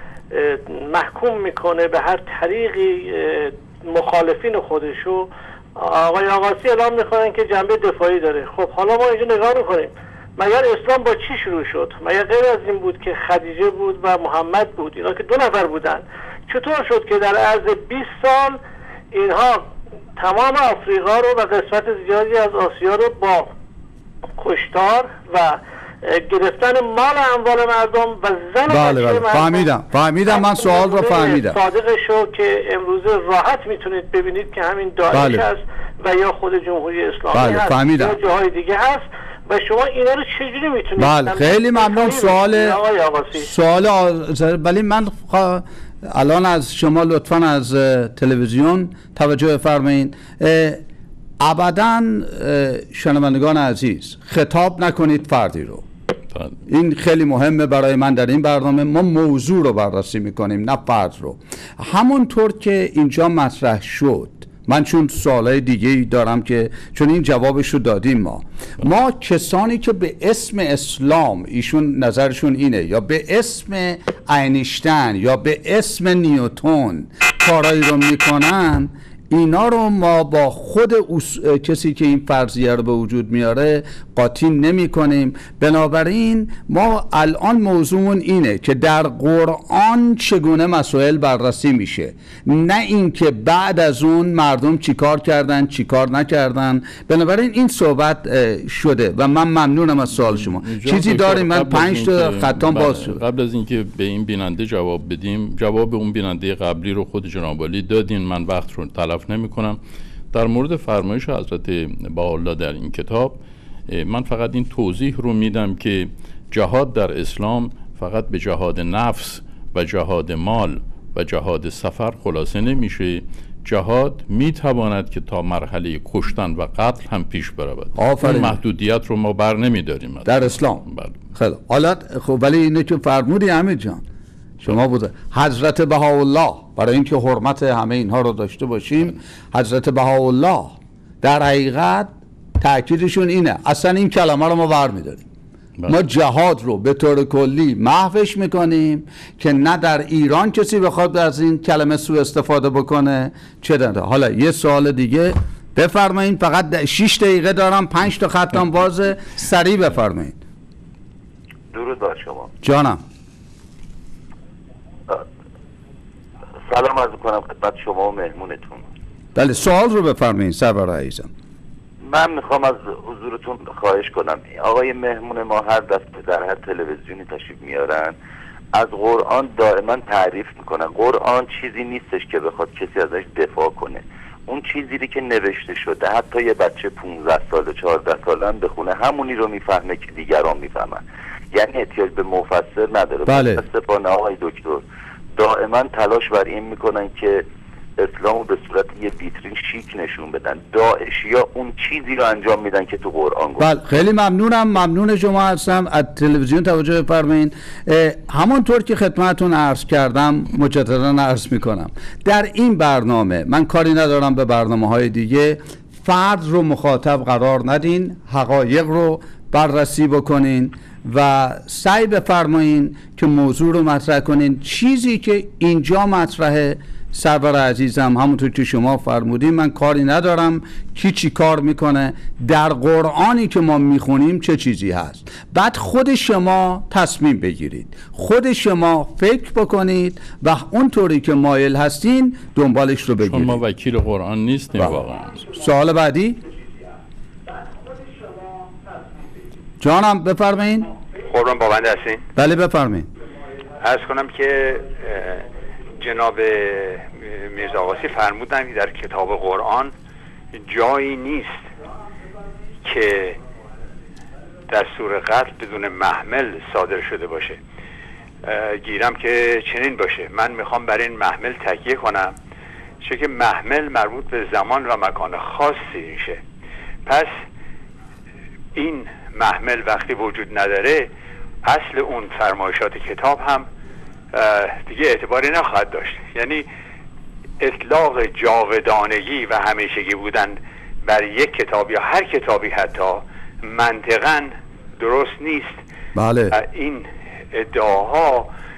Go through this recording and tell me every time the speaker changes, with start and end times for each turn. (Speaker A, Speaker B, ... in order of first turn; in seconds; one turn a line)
Speaker A: 0.3-18.6
Speaker A: 19.1-19.6
Speaker A: 20.2-23.5
Speaker A: 24.4-29.7
Speaker B: 28.7-31.6
Speaker A: 30.3-43.5
Speaker B: 35.1-35.4
Speaker B: 37.3-38.2
Speaker B: 41.0-42.8
Speaker B: 43.4-50.8
Speaker B: 51.4-55.8
Speaker B: 56.7-103.2
Speaker C: 100.1-109.8
Speaker C: 110.3-131.2
Speaker B: 128.0-128.6
Speaker B: 130.2-134.0
Speaker B: 134.6-145.2
Speaker C: 145.8-146.1
Speaker B: 145.9-160.4
Speaker D: 161.7-162.5
Speaker B: 162.6-163.0
Speaker D: 166.7-168.8
Speaker B: 169.3-171.3
Speaker D: 172.0-178.1
Speaker D: 178.7-194.8
Speaker B: 193.3-193.6
Speaker D: 195.4-197.4
Speaker D: 198.0-203.7
Speaker B: 203.6-243.6
Speaker C: 243.2-245.4
Speaker B: 244.8-246.4
Speaker B: 249.8-250.9
Speaker E: 251.2-252.3
Speaker B: 252.3-253.1
Speaker E: 253.8-259.9
Speaker E: 260.5-261.6
Speaker E: 262.8-263.4
Speaker E: 264.7-267.6
Speaker E: 268.4-272.3
Speaker E: 273.0-276.4
Speaker E: 277.1-277.3
Speaker E: 278.7-281.1
Speaker E: 281.6-283.7
Speaker E: 284.3-286.6
Speaker E: 287.6-295.8
Speaker B: 296.1-296.6
Speaker E: 296.5-298.5